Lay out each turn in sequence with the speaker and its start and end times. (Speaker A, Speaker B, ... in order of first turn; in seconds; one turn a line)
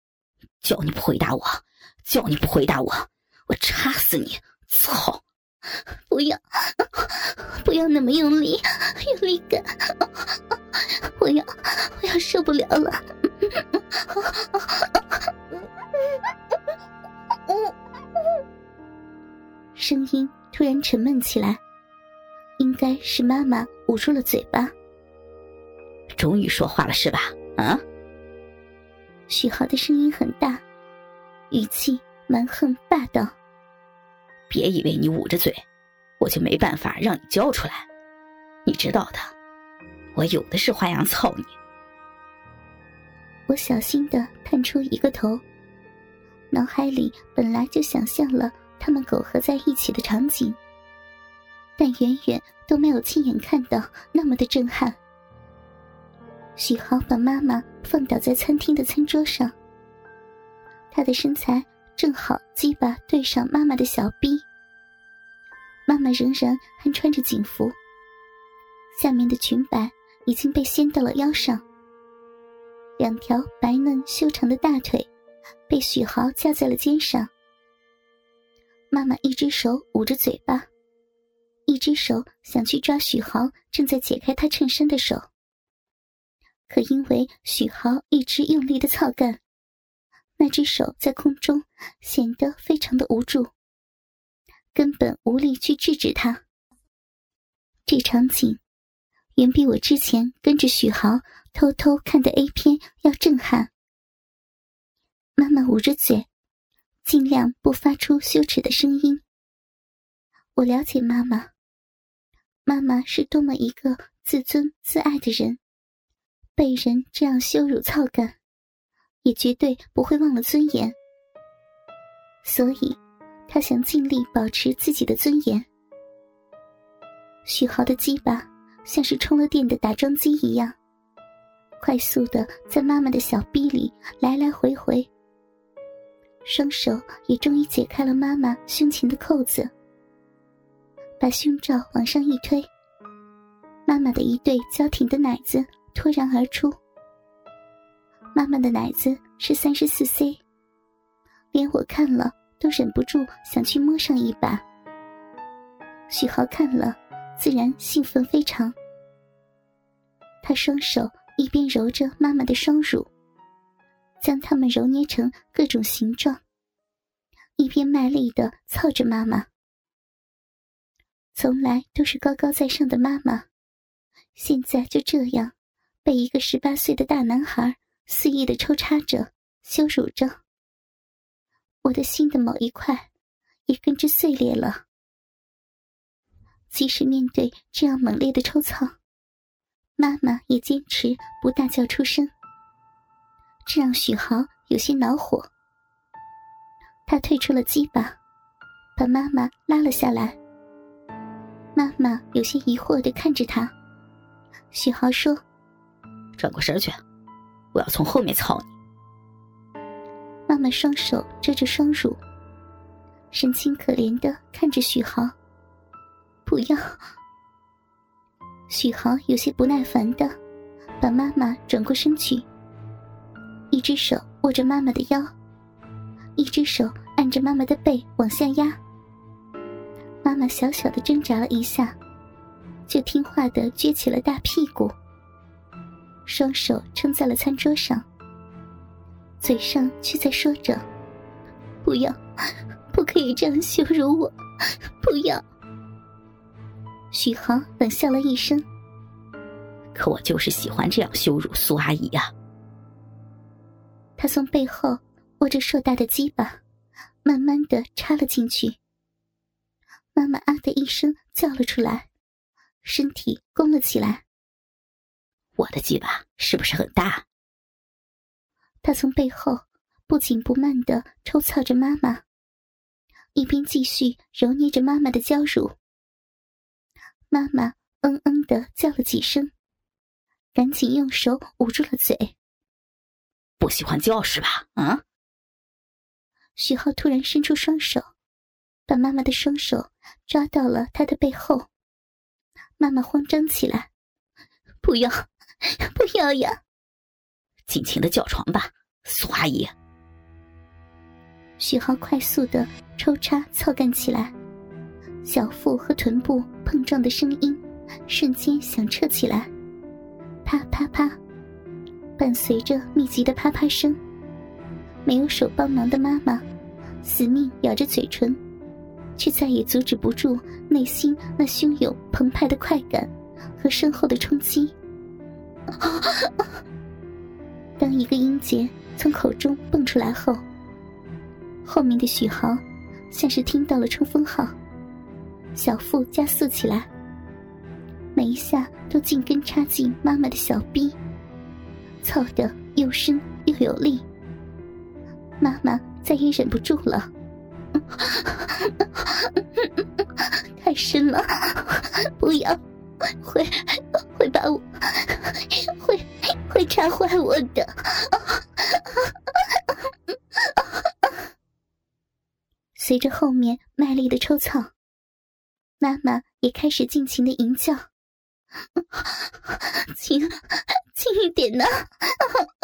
Speaker A: 0.6-5.2
Speaker B: 6.1-10.1
Speaker B: 11.0-14.9
Speaker B: 19.8-21.6
Speaker B: 22.6-24.7
Speaker A: 26.1-27.8
Speaker B: 29.3-30.6
Speaker B: 31.5-33.3
Speaker A: 34.5-35.6
Speaker A: 36.2-37.9
Speaker A: 38.7-39.3
Speaker A: 40.1-41.5
Speaker B: 43.5-45.4
Speaker B: 46.5-50.6
Speaker B: 51.8-55.0
Speaker B: 56.6-59.5
Speaker B: 60.9-64.4
Speaker B: 65.9-67.8
Speaker B: 68.9-71.6
Speaker B: 73.0-75.1
Speaker B: 75.7-77.3
Speaker B: 78.9-80.7
Speaker B: 81.7-85.3
Speaker B: 86.7-89.4
Speaker B: 90.4-93.5
Speaker B: 94.8-96.4
Speaker B: 97.9-98.6
Speaker B: 99.4-103.7
Speaker B: 105.4-106.3
Speaker B: 107.0-109.2
Speaker B: 110.6-111.5
Speaker B: 112.7-115.6
Speaker B: 116.6-118.3
Speaker B: 119.2-121.0
Speaker B: 122.4-125.7
Speaker B: 127.5-130.8
Speaker B: 131.8-135.1
Speaker B: 136.4-139.7
Speaker B: 141.2-142.7
Speaker B: 143.9-146.8
Speaker B: 148.3-150.4
Speaker B: 151.5-154.6
Speaker B: 156.1-158.8
Speaker B: 160.4-163.1
Speaker B: 164.2-166.4
Speaker B: 167.6-169.5
Speaker B: 171.3-173.4
Speaker B: 174.4-175.5
Speaker B: 176.1-180.4
Speaker B: 181.8-183.1
Speaker B: 183.7-184.8
Speaker B: 186.7-188.9
Speaker B: 190.0-192.3
Speaker B: 193.7-195.5
Speaker B: 197.1-198.2
Speaker B: 199.0-200.4
Speaker B: 201.8-203.7
Speaker B: 204.7-205.4
Speaker A: 206.4-207.0
Speaker A: 207.7-208.7
Speaker B: 210.5-212.2
Speaker B: 213.3-215.3
Speaker B: 216.5-217.0
Speaker B: 218.7-220.3
Speaker B: 221.0-222.5
Speaker B: 223.7-225.3
Speaker B: 226.4-228.8
Speaker B: 230.2-231.9
Speaker B: 232.9-234.9
Speaker B: 236.3-238.0
Speaker B: 239.4-240.8
Speaker B: 241.8-242.2
Speaker B: 242.9-244.3
Speaker B: 245.0-245.4
Speaker B: 247.1-248.7
Speaker A: 249.9-252.3
Speaker B: 254.2-256.6
Speaker B: 257.2-258.8
Speaker B: 260.1-262.1
Speaker B: 262.8-264.2
Speaker A: 265.6-267.2
Speaker B: 268.8-272.2
Speaker B: 273.4-275.8
Speaker B: 277.3-279.5
Speaker B: 280.5-282.3
Speaker A: 283.6-285.0
Speaker B: 286.6-288.1
Speaker B: 288.9-291.7
Speaker B: 292.8-293.9
Speaker B: 294.8-296.6
Speaker A: 297.7-299.7
Speaker B: 301.6-304.3
Speaker B: 305.2-309.5
Speaker B: 310.4-311.2
Speaker B: 312.2-314.0
Speaker B: 315.1-316.4
Speaker B: 317.0-318.4
Speaker B: 319.2-324.7
Speaker B: 325.8-326.3
Speaker B: 327.8-330.4
Speaker B: 331.6-334.5
Speaker B: 335.6-336.9
Speaker B: 338.1-341.0
Speaker B: 342.0-344.1
Speaker B: 345.4-347.1
Speaker B: 347.9-349.6
Speaker B: 350.2-352.6
Speaker B: 353.1-359.7
Speaker B: 362.8-364.7
Speaker B: 365.8-367.8
Speaker B: 368.9-372.5